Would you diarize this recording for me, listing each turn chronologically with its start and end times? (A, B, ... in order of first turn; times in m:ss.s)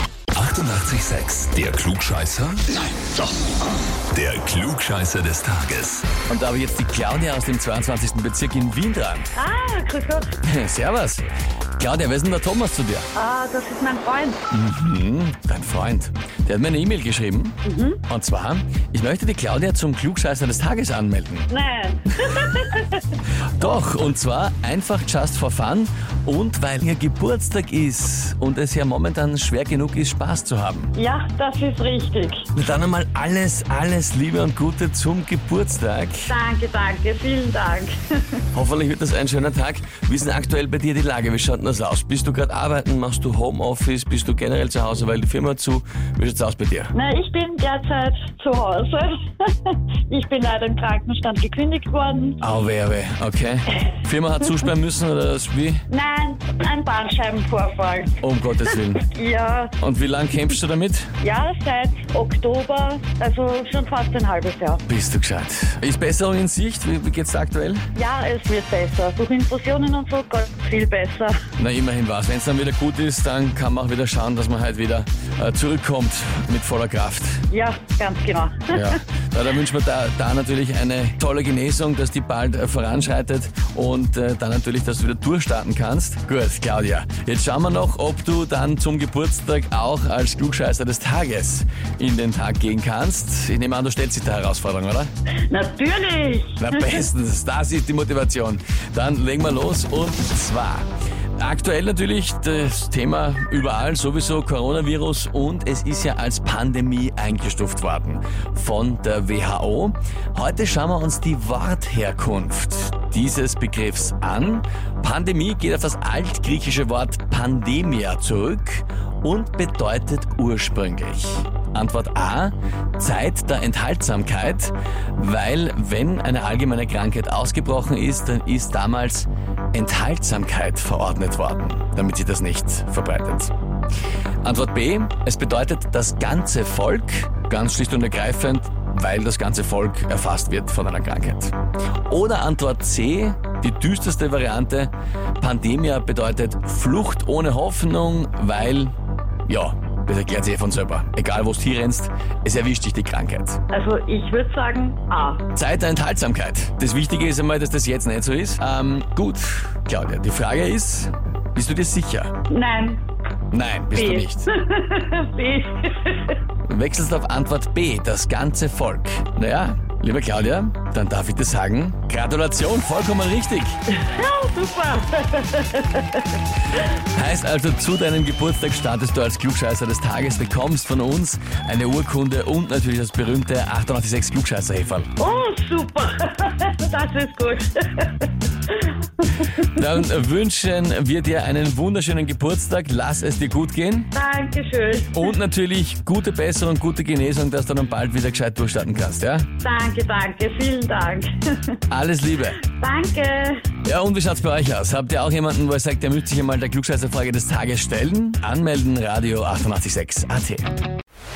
0:00.3-0:02.7 A
0:04.1-0:06.1 A
0:06.3-0:09.3 B
0:09.4-0:10.4 C
0:10.4-0:11.2 B
0:11.8-0:13.1 B
0:13.2-0:14.4 C
0:14.5-0:21.5 B
0:17.6-0:18.0 C
0:21.5-0:23.0 C
0:23.6-0:30.9 B
0:31.0-0:32.4 C
0:32.5-0:36.4 B
0:36.3-0:38.4 C
0:38.5-0:46.9 B
0:46.9-0:52.4 C
0:52.4-0:55.8 B
0:55.9-0:58.2 C
0:58.2-0:59.0 B
0:58.7-0:59.7 C
0:59.8-1:01.1 B
1:01.2-1:04.8 C
1:04.9-1:07.8 B
1:08.0-1:11.4 C
1:11.6-1:17.4 B
1:17.5-1:19.0 C
1:18.7-1:35.1 B
1:35.5-1:37.0 C
1:36.6-1:40.8 B
1:41.4-2:13.5 B
2:14.4-2:21.5 B
2:22.1-2:28.9 B
2:29.5-2:33.6 B
2:33.7-2:35.4 C
2:35.6-2:42.4 B
2:42.5-2:43.0 C
2:43.5-2:44.5 B
2:43.9-2:46.4 C
2:46.7-2:53.8 B
2:53.9-2:56.8 C
2:57.0-3:05.1 B
3:05.2-3:09.5 C
3:09.6-3:14.1 B
3:14.2-3:15.3 C
3:15.1-3:19.5 B
3:19.6-3:21.8 C
3:21.9-3:22.6 B
3:22.6-3:23.7 C
3:23.8-3:30.7 B